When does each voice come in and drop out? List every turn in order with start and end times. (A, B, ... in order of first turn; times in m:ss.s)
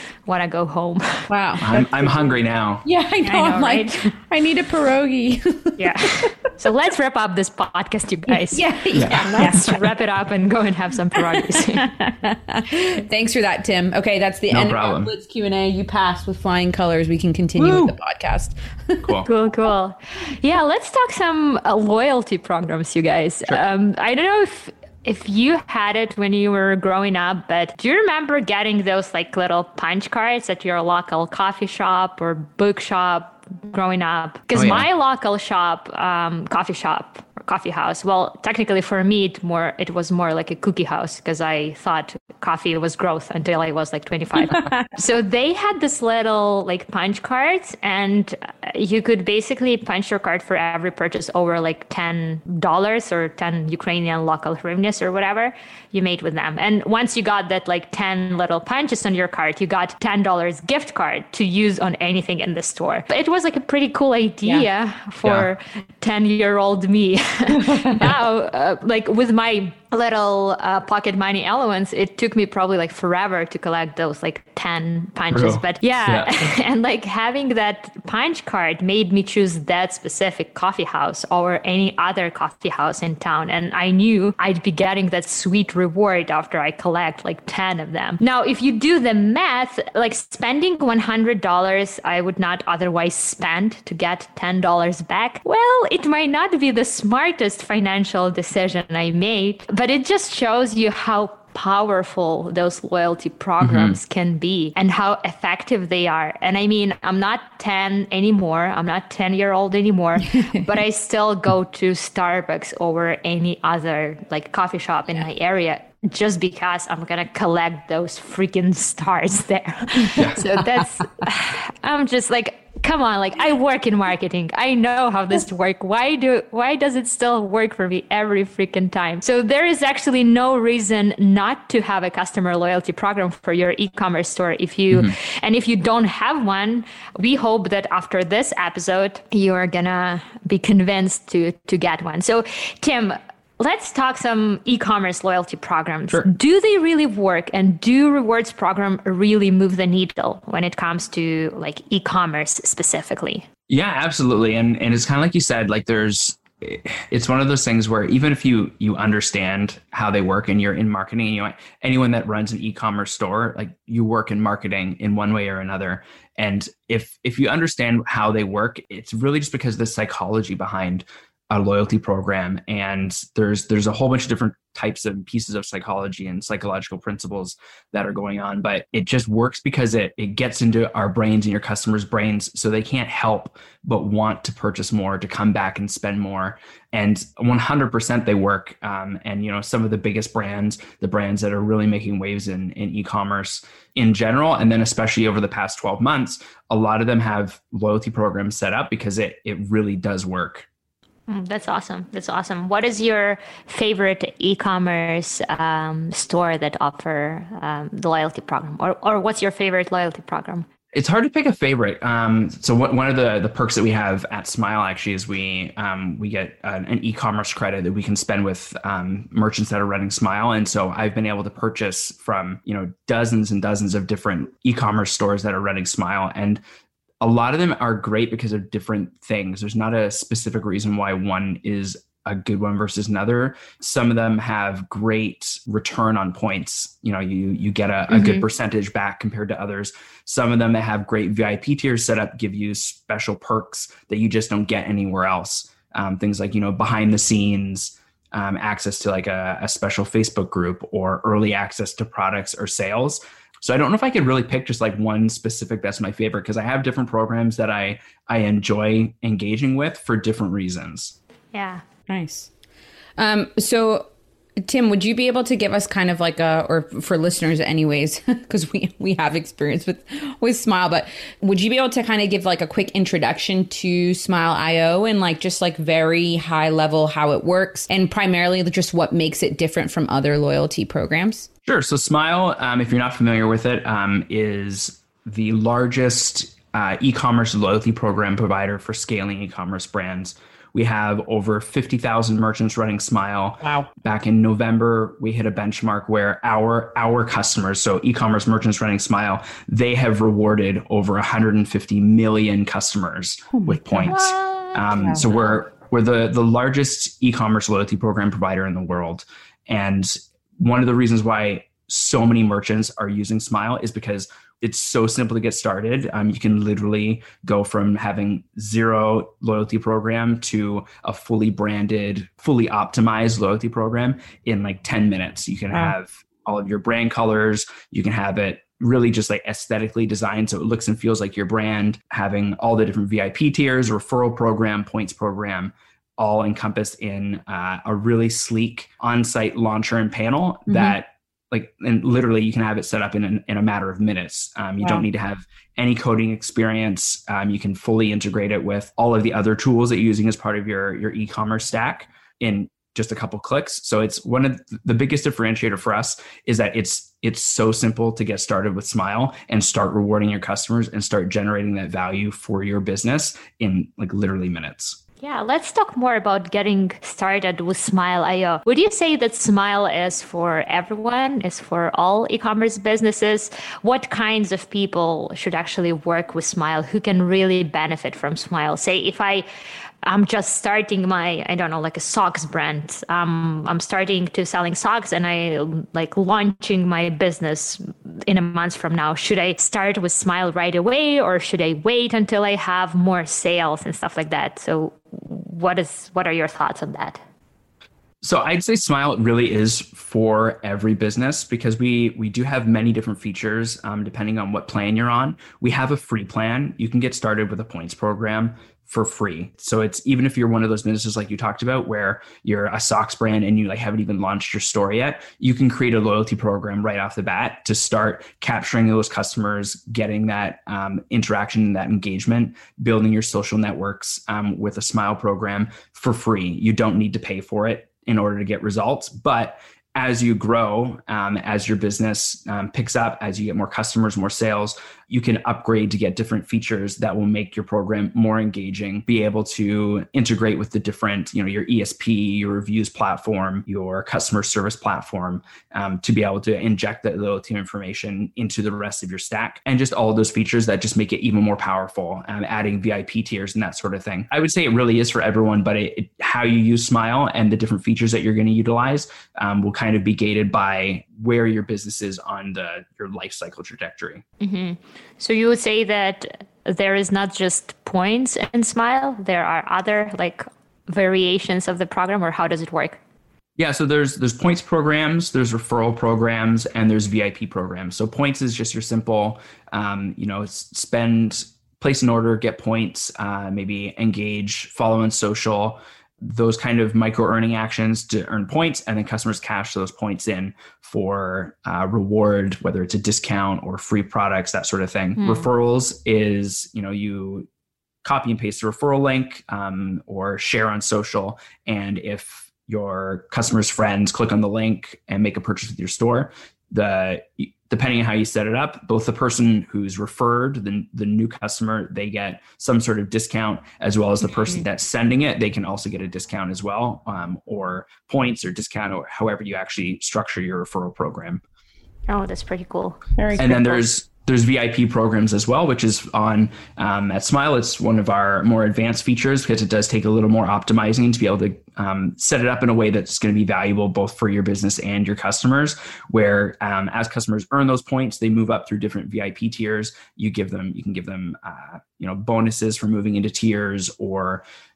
0:00.2-0:01.3 A
0:01.3-0:06.3 B
0:01.6-0:02.8 C
0:03.2-0:04.1 A
0:05.8-0:11.9 A
0:08.3-0:09.9 B
0:08.9-0:09.7 C
0:11.1-0:19.1 B
0:14.5-0:15.1 C
0:17.6-0:17.9 C
0:19.0-0:19.3 C
0:19.2-2:33.5 A
0:34.5-0:34.9 C
0:44.5-0:44.8 B
1:05.2-1:05.5 C
1:07.5-1:08.0 B
1:15.3-1:16.5 C
1:43.6-1:44.0 C
2:00.1-2:00.4 C
2:33.7-3:20.6 C
3:21.3-3:30.7 A
3:30.9-3:46.6 C
3:47.2-4:21.1 C
3:58.1-3:58.4 A
4:21.5-4:21.8 A
4:22.1-4:22.5 B
4:23.2-4:24.1 B
4:24.6-4:41.5 B
4:41.6-6:05.0 C
4:53.6-4:53.9 B
5:03.5-5:04.1 B
5:04.0-5:05.5 A
5:40.7-5:41.0 B
6:05.2-6:19.4 A
6:20.0-6:37.2 A
6:38.2-7:44.2 C
7:44.4-7:53.0 A
7:53.6-8:17.5 C
8:15.2-8:15.5 A
8:18.0-8:41.4 C
8:34.3-8:34.6 A
8:42.1-8:43.8 A
8:43.2-8:43.8 B
8:43.4-9:04.4 C